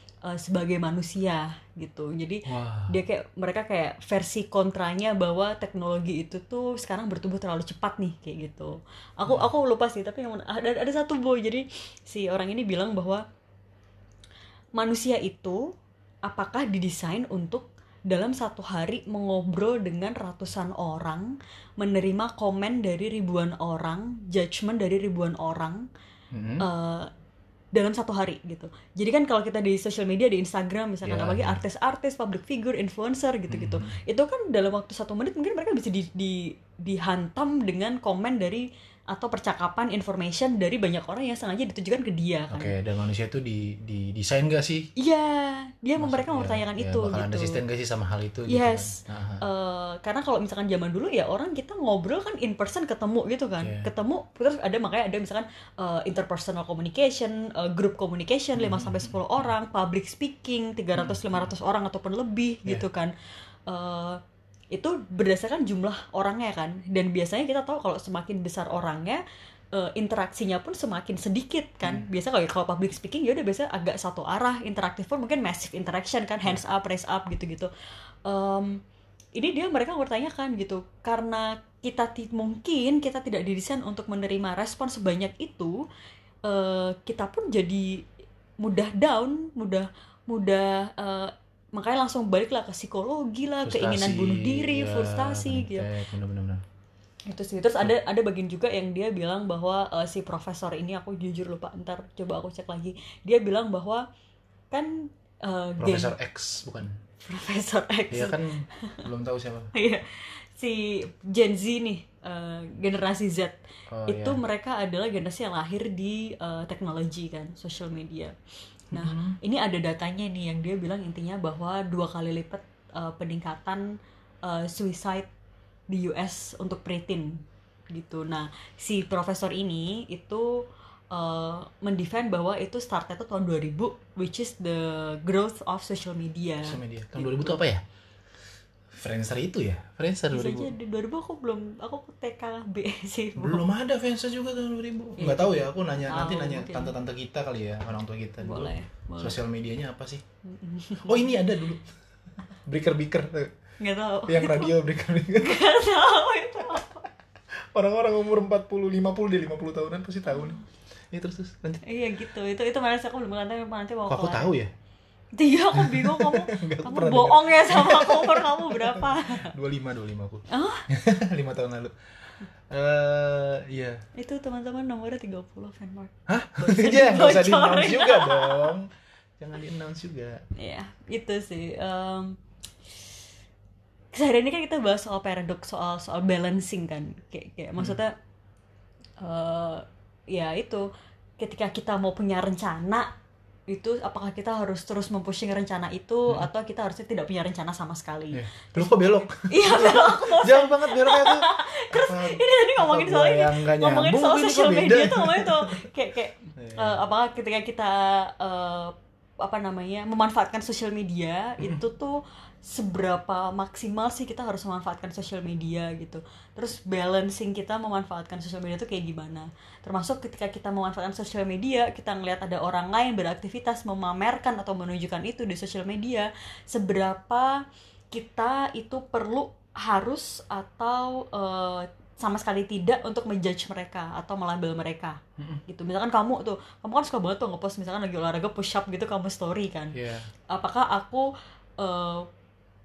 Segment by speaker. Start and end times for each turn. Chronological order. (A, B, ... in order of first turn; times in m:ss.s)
0:00.2-0:13.2 A
0:02.5-0:03.0 B
0:14.8-0:15.6 A
0:16.2-0:25.9 A
0:26.3-0:26.7 B
0:26.6-0:27.1 A
0:27.7-0:42.8 A
0:31.0-0:31.6 B
0:33.5-0:34.0 B
0:42.5-0:44.9 B
0:45.0-0:47.6 A
0:46.0-0:49.4 B
0:48.5-1:03.1 A
0:53.6-0:53.9 B
0:58.6-0:59.5 B
1:01.0-1:01.5 B
1:03.7-1:04.2 A
1:04.7-1:17.7 A
1:18.2-1:18.8 A
1:19.4-1:25.8 A
1:26.4-1:28.0 A
1:28.6-1:35.9 A
1:33.6-1:36.6 B
1:37.3-1:44.1 A
1:44.7-1:46.1 A
1:45.8-1:47.0 B
1:47.2-1:49.0 A
1:48.1-1:49.7 B
1:49.7-1:58.3 A
1:53.9-1:54.4 B
1:58.9-2:05.3 A
1:58.9-1:59.4 B
2:05.9-2:17.6 A
2:16.6-2:17.8 B
2:18.9-2:20.7 B
2:20.3-2:23.6 A
2:23.4-2:30.2 B
2:25.2-2:27.0 A
2:28.4-2:29.4 A
2:30.4-2:31.3 A
2:31.0-2:31.9 B
2:32.7-2:33.5 B
2:33.8-2:34.8 A
2:34.3-2:35.7 B
2:35.4-2:37.1 A
2:37.6-2:40.6 B
2:40.3-2:40.6 A
2:41.1-2:41.8 B
2:41.8-2:44.5 A
2:44.1-2:44.7 B
2:45.4-2:49.5 A
2:45.7-2:52.0 B
2:50.5-2:50.9 A
2:52.7-2:54.0 B
2:54.2-2:58.7 A
2:56.3-3:00.4 B
3:00.6-3:02.4 A
3:04.1-3:08.2 A
3:09.2-3:10.8 A
3:11.4-3:13.1 A
3:13.7-3:47.6 A
3:18.3-3:25.8 B
3:26.5-3:27.0 B
3:48.1-3:59.9 A
3:59.9-4:00.3 B
4:00.5-4:01.3 A
4:01.8-4:02.3 A